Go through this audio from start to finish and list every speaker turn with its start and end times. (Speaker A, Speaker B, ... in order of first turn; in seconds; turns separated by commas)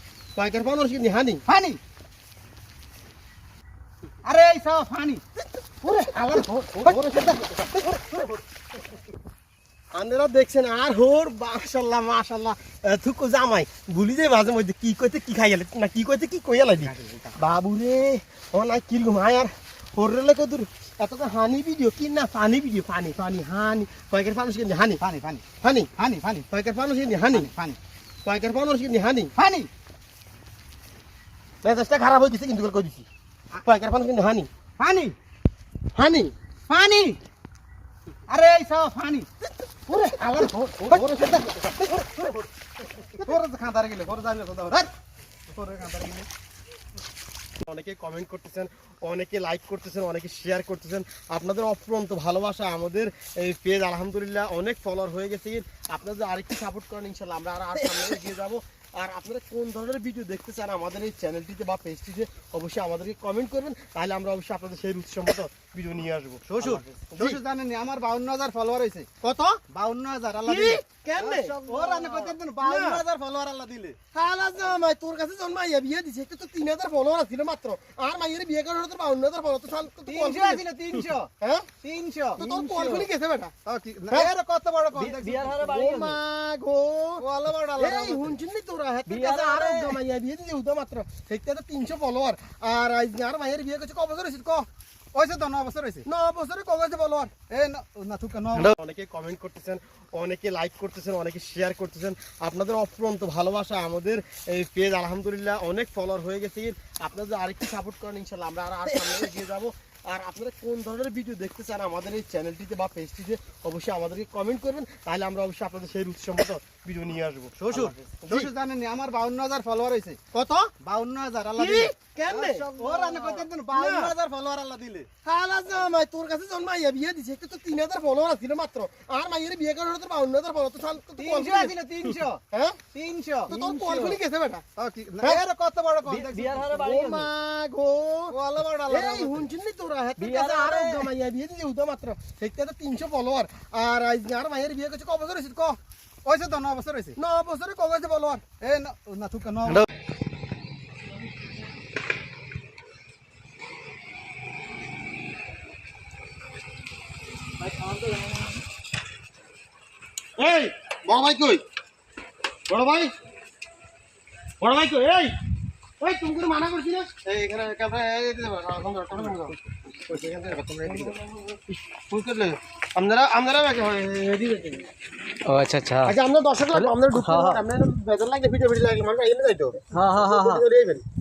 Speaker A: 0.3-1.4, Speaker B: 1.4-1.8, Speaker B: 4.2-5.2, Speaker B: 5.8-8.3, Speaker A: 6.7-8.1, Speaker A: 9.9-25.0, Speaker B: 16.8-17.4, Speaker B: 25.0-25.4, Speaker A: 25.6-25.9, Speaker B: 25.9-26.5, Speaker A: 26.5-27.5, Speaker B: 27.2-27.8, Speaker A: 28.2-29.3, Speaker B: 29.3-29.7, Speaker A: 31.6-33.0, Speaker A: 33.6-34.5, Speaker B: 34.8-35.1, Speaker A: 36.0-36.3, Speaker B: 36.7-37.2, Speaker B: 38.3-39.3, Speaker B: 39.9-42.4, Speaker A: 40.9-42.3, Speaker B: 43.2-44.9, Speaker B: 45.5-46.3, Speaker A: 47.6-67.4, Speaker B: 66.5-69.1, Speaker A: 69.2-69.6, Speaker B: 69.7-74.0, Speaker A: 70.4-73.0, Speaker A: 74.1-80.6, Speaker B: 80.0-83.1, Speaker A: 81.4-81.7, Speaker A: 82.4-83.5, Speaker C: 82.4-83.0, Speaker B: 83.6-86.1, Speaker C: 84.9-86.2, Speaker A: 85.7-87.2, Speaker B: 87.2-88.3, Speaker A: 87.8-94.6, Speaker C: 89.1-90.0, Speaker B: 95.1-96.0, Speaker A: 96.0-97.3, Speaker B: 97.5-98.7, Speaker A: 98.5-118.5, Speaker B: 117.5-120.2, Speaker A: 120.3-120.7, Speaker B: 120.8-125.1, Speaker A: 121.5-124.1, Speaker A: 125.2-131.7, Speaker B: 131.2-134.2, Speaker A: 132.5-132.8, Speaker A: 133.5-134.7, Speaker C: 133.5-134.1, Speaker B: 134.8-136.8, Speaker C: 136.1-137.3, Speaker A: 136.7-138.3, Speaker B: 138.3-139.5, Speaker A: 138.9-145.8, Speaker C: 140.2-141.1, Speaker B: 146.2-147.2, Speaker A: 147.2-148.4, Speaker B: 148.6-149.9, Speaker A: 157.6-158.4, Speaker A: 160.4-161.6, Speaker A: 162.7-163.1, Speaker A: 164.6-165.3, Speaker A: 166.0-174.9, Speaker C: 175.4-176.1, Speaker A: 176.0-181.0, Speaker C: 176.7-177.6, Speaker C: 179.9-180.6